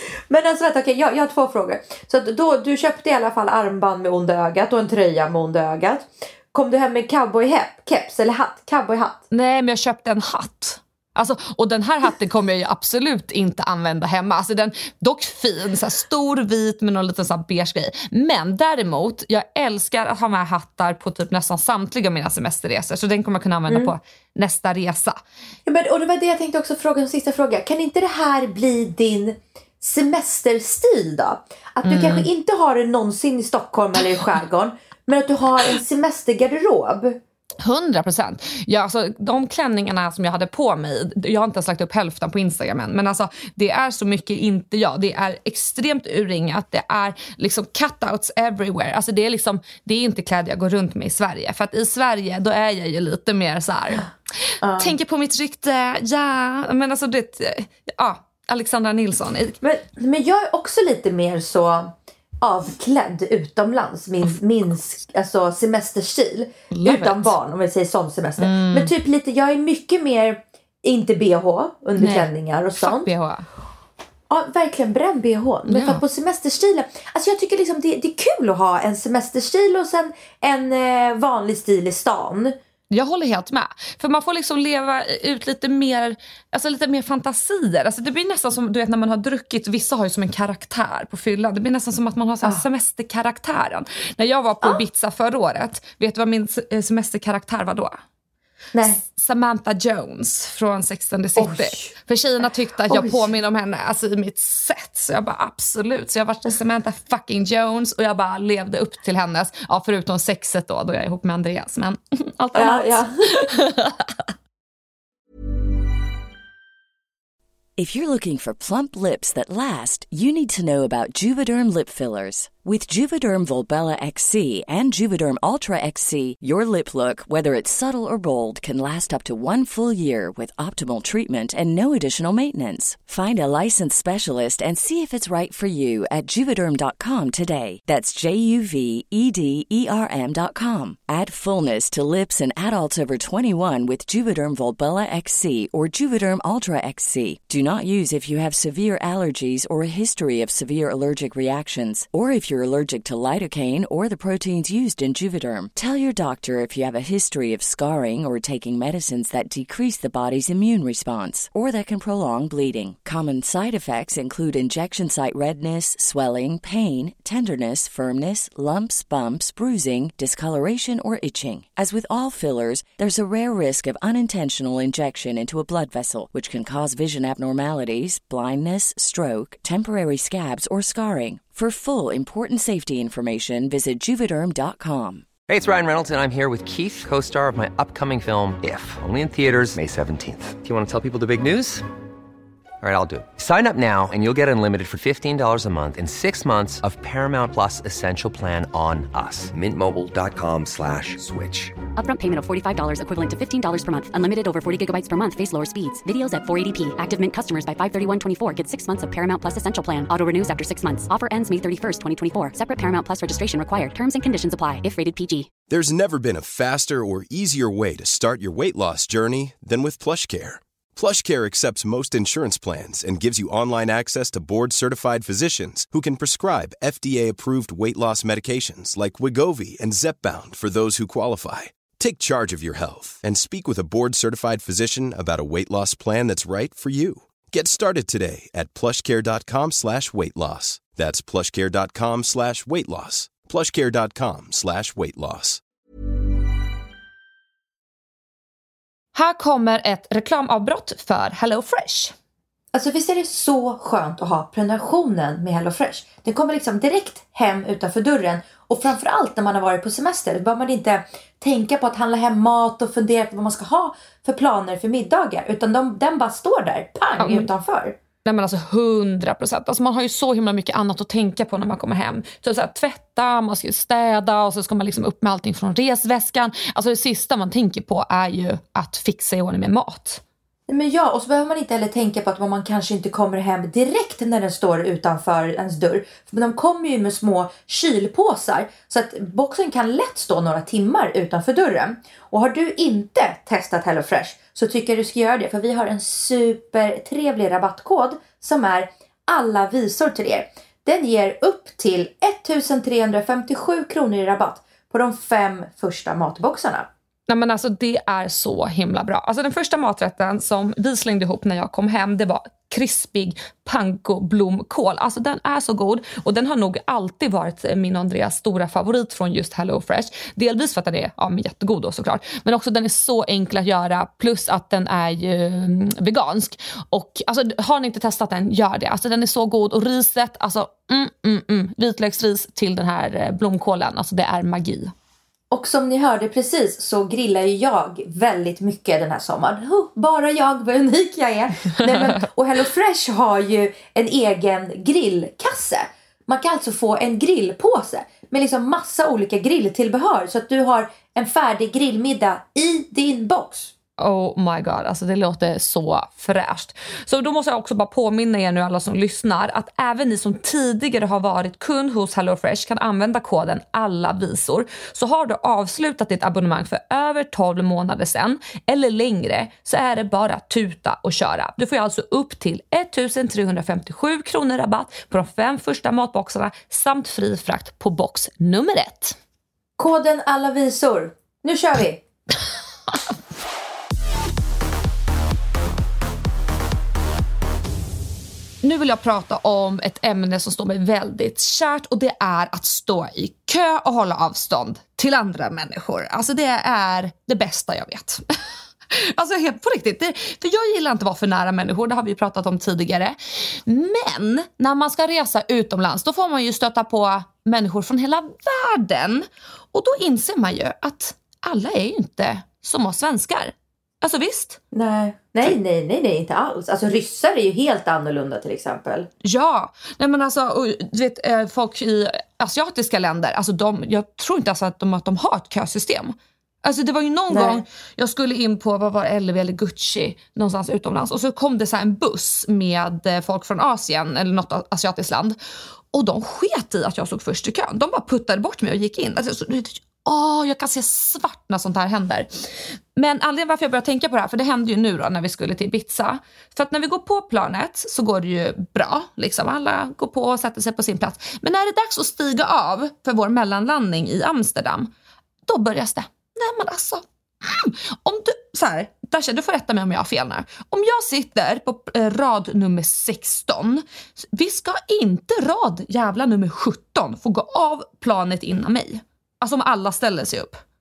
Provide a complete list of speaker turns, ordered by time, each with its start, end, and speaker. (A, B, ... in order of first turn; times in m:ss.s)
0:00.3-0:09.2 A
0:09.3-0:25.2 B
0:23.7-0:23.9 A
0:25.6-0:37.2 A
0:31.8-0:32.3 B
0:37.6-0:54.1 B
0:54.6-0:54.9 A
0:54.8-0:59.6 B
0:59.6-1:13.1 A
1:06.7-1:07.3 B
1:08.4-1:08.9 B
1:12.0-1:13.4 B
1:14.3-1:22.6 A
1:15.7-1:16.0 B
1:22.9-1:38.0 B
1:38.7-1:39.0 A
1:38.8-1:54.1 B
1:41.4-1:41.9 A
1:42.9-1:43.3 A
1:52.5-1:53.5 A
1:57.8-3:05.2 C
3:05.5-3:11.8 D
3:12.8-3:21.8 D
3:21.9-3:35.5 E
3:35.7-4:05.6 F
4:09.1-4:12.1 B
4:12.7-4:28.0 A
4:27.2-4:27.5 B
4:28.2-4:40.2 B
4:40.7-5:06.9 A
5:07.3-5:34.9 B
5:35.5-5:53.7 A
5:54.0-6:19.2 B
6:19.8-6:22.0 A
6:28.6-6:38.2 B
6:38.9-6:54.6 B
6:54.7-6:59.1 A
6:59.2-7:15.4 B
7:07.3-7:07.6 A
7:15.9-7:22.3 B
7:23.0-7:34.9 B
7:35.5-7:50.6 B